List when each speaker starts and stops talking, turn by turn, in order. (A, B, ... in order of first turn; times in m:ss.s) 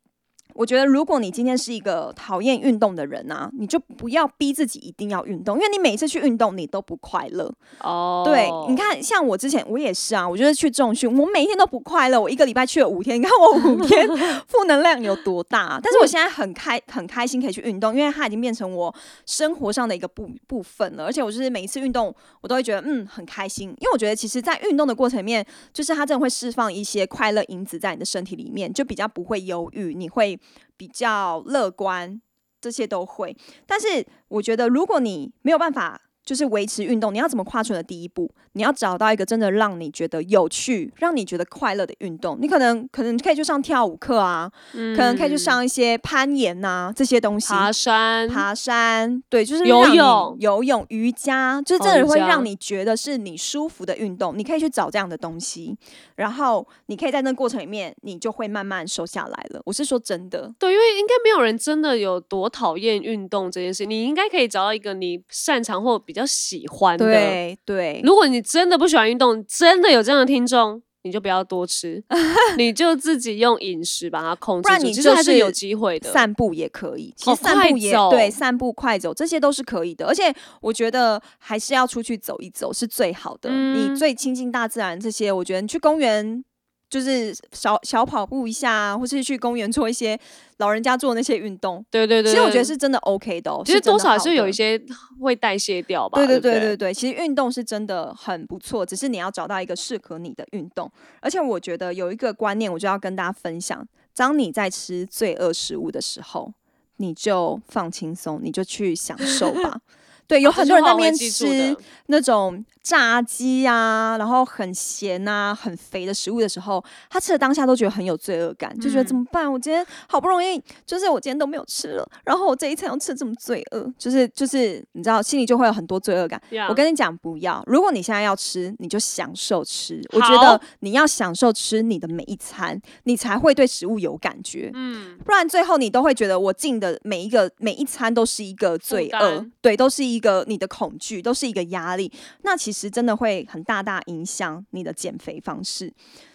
0:00.5-0:07.6 A
0:07.8-0:08.8 B
0:08.2-0:47.7 A
0:44.7-0:45.6 B
0:47.4-0:48.4 B
0:48.3-1:00.5 A
0:49.6-0:50.4 B
0:51.8-0:52.5 B
1:00.6-1:07.4 B
1:07.0-1:08.1 A
1:08.0-1:16.2 B
1:12.1-1:12.6 A
1:14.6-1:34.6 A
1:17.2-1:18.4 B
1:23.4-1:24.0 B
1:31.9-1:32.7 B
1:33.6-1:36.8 B
1:36.1-2:26.0 A
1:50.4-1:51.8 B
1:58.8-1:59.2 B
2:06.5-2:06.8 B
2:10.1-2:10.6 B
2:14.7-2:15.2 B
2:18.9-2:19.5 B